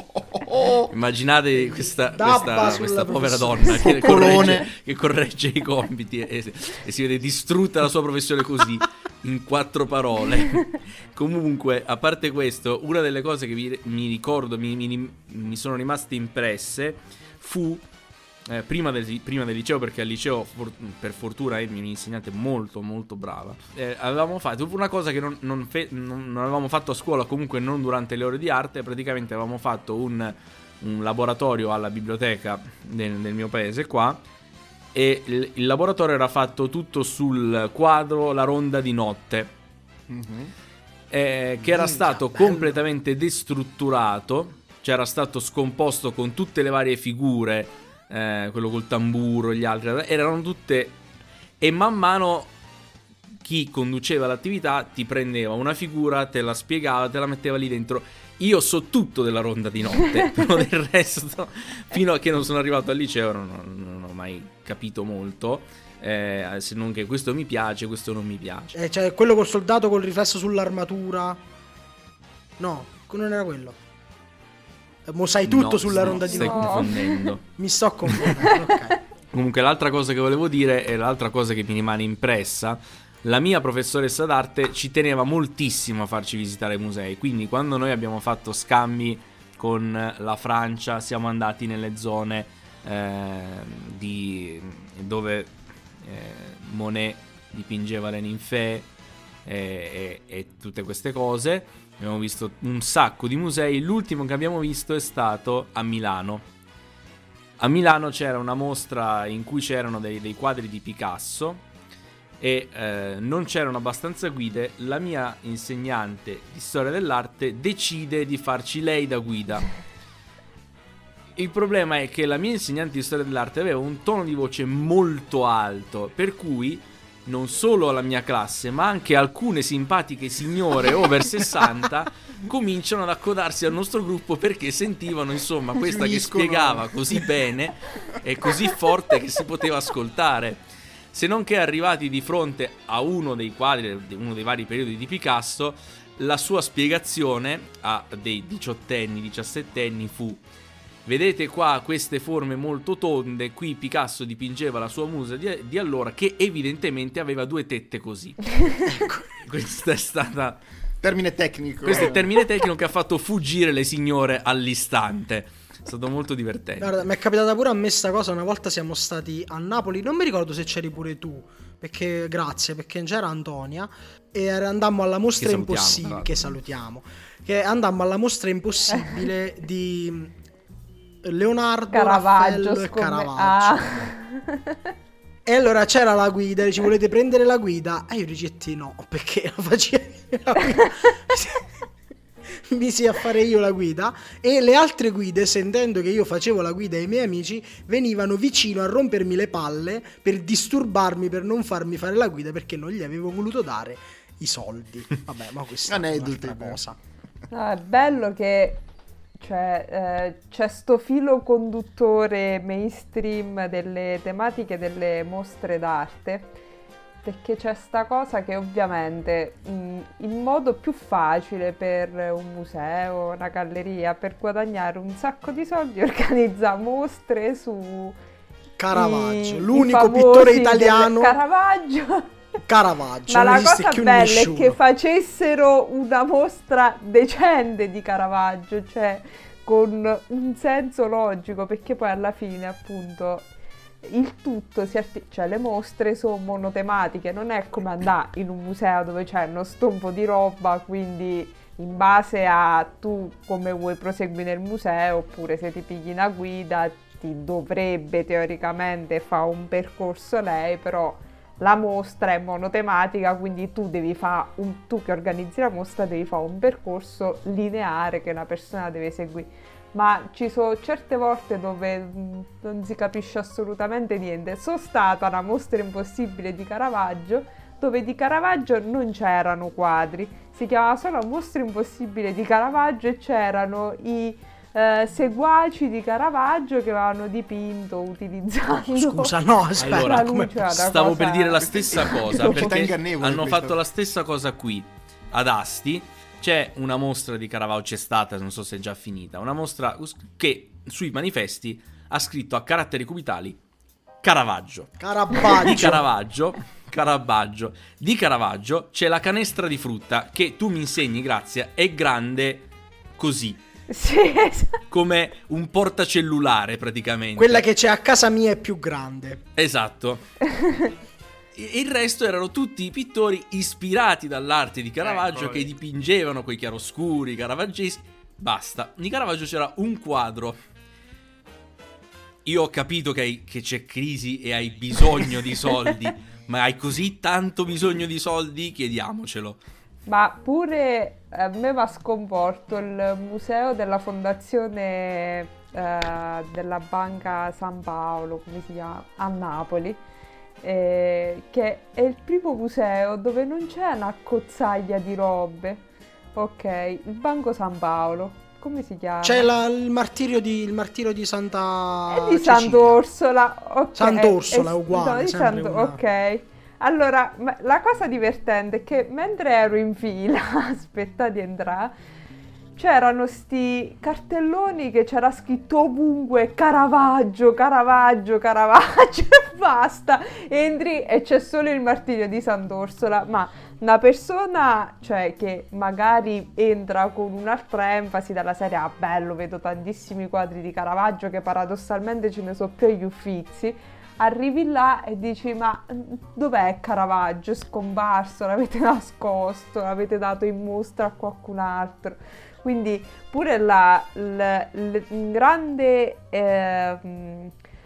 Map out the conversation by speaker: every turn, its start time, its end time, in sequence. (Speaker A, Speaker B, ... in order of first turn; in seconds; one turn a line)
Speaker A: 0.1-0.9
Speaker B: 0.9-17.9
Speaker C: 2.0-4.7
Speaker A: 3.9-4.7
Speaker B: 18.5-34.2
Speaker B: 34.9-39.5
Speaker A: 40.1-40.5
Speaker B: 41.1-51.0
Speaker A: 41.8-42.7
Speaker B: 51.6-52.5
Speaker B: 53.4-68.8
Speaker C: 68.7-71.4
Speaker C: 72.6-73.8
Speaker C: 75.1-76.9
Speaker B: 75.5-77.4
Speaker D: 76.3-77.2
Speaker C: 77.6-79.0
Speaker B: 78.1-78.4
Speaker D: 78.5-78.7
Speaker B: 79.3-98.9
Speaker B: 99.5-106.5
Speaker B: 107.6-111.6
Speaker B: 112.4-119.7
Speaker B: 121.4-150.4
Speaker A: 135.8-137.4
Speaker B: 151.1-158.8
Speaker C: 158.9-159.3
Speaker B: 159.4-160.6
Speaker A: 161.0-162.3
Speaker B: 161.8-167.0
Speaker C: 166.8-180.4
Speaker B: 175.4-176.4
Speaker C: 181.2-184.1
Speaker D: 181.9-184.8
Speaker C: 185.4-191.7
Speaker C: 192.5-207.0
Speaker A: 205.9-206.8
Speaker D: 207.5-208.8
Speaker D: 209.4-216.5
Speaker D: 217.2-228.2
Speaker C: 228.8-231.4
Speaker D: 228.9-232.3
Speaker C: 232.7-234.8
Speaker D: 233.3-243.5
Speaker D: 244.0-289.3
Speaker C: 288.7-290.7
Speaker B: 289.8-303.6
Speaker D: 289.8-292.9
Speaker A: 291.6-293.8
Speaker B: 304.2-312.7
Speaker C: 305.0-306.0
Speaker B: 313.2-313.6
Speaker D: 313.9-314.8
Speaker B: 314.9-317.7
Speaker C: 317.4-319.4
Speaker B: 319.6-320.2
Speaker D: 320.5-320.9
Speaker B: 321.6-330.6
Speaker A: 325.0-325.7
Speaker B: 332.4-339.6
Speaker D: 340.1-350.0
Speaker D: 350.6-355.8
Speaker D: 356.4-359.5
Speaker C: 359.2-363.0
Speaker D: 362.1-371.9
Speaker C: 363.9-366.0
Speaker D: 372.8-407.5